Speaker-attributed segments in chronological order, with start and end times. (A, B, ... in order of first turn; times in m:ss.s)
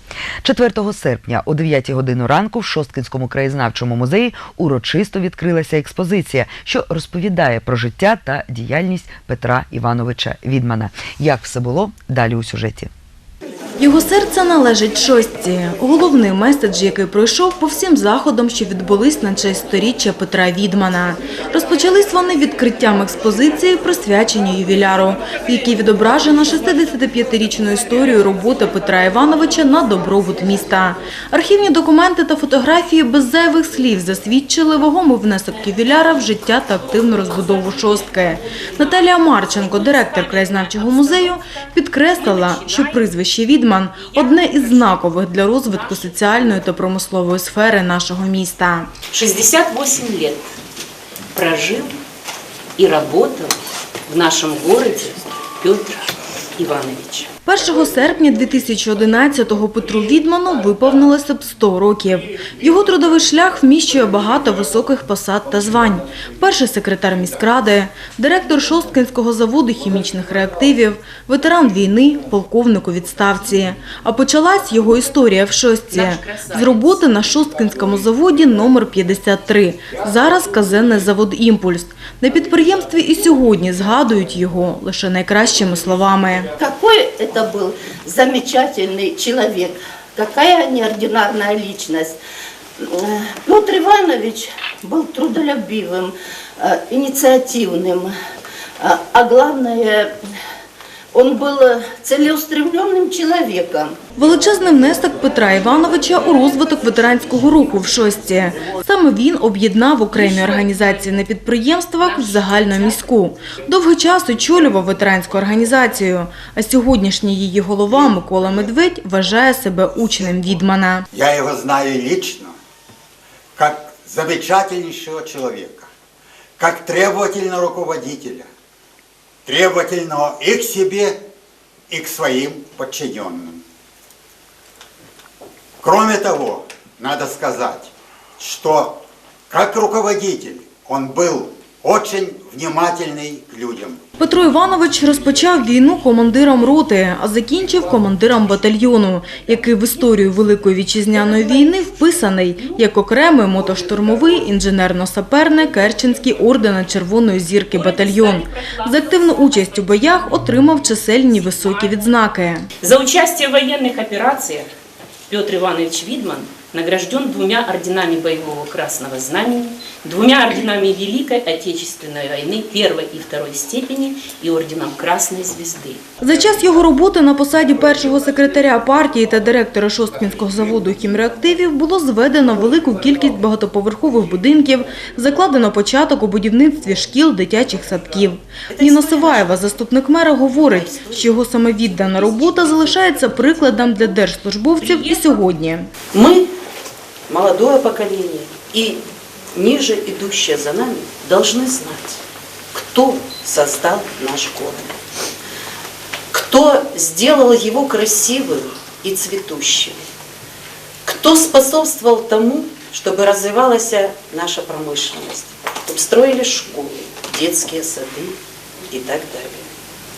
0:00.4-0:12.9 A
0:13.8-0:48.9 B
0:37.1-0:41.3 C
0:42.2-0:43.0 C
0:44.0-0:44.9 C
0:45.8-0:46.5 C
0:49.1-0:50.5 C
0:51.3-0:52.0 C
0:52.8-0:57.3 C
0:57.4-1:26.5 B
1:15.9-1:17.1 C
1:26.6-1:32.2 D
1:32.8-1:38.1 D
1:38.8-1:40.1 D
1:41.1-1:44.0 D
1:44.2-2:01.0 B
1:50.2-1:50.6 C
1:52.0-1:53.0 C
1:57.9-1:58.2 E
2:01.1-2:02.5 E
2:03.6-2:05.9 E
2:06.6-2:08.5 E
2:09.4-2:11.2 E
2:11.9-2:13.6 E
2:15.8-2:24.0 E
2:24.2-2:42.7 B
2:37.7-2:42.0 C
2:42.8-2:44.7 C
2:45.3-2:56.0 C
2:56.2-3:15.9 B
3:08.7-3:09.7 F
3:10.5-3:14.0 F
3:14.8-3:15.4 C
3:16.1-3:16.5 F
3:17.3-3:19.0 F
3:19.5-3:22.2 F
3:22.7-3:25.0 F
3:26.3-3:30.0 F
3:31.0-3:38.4 F
3:38.9-3:39.7 F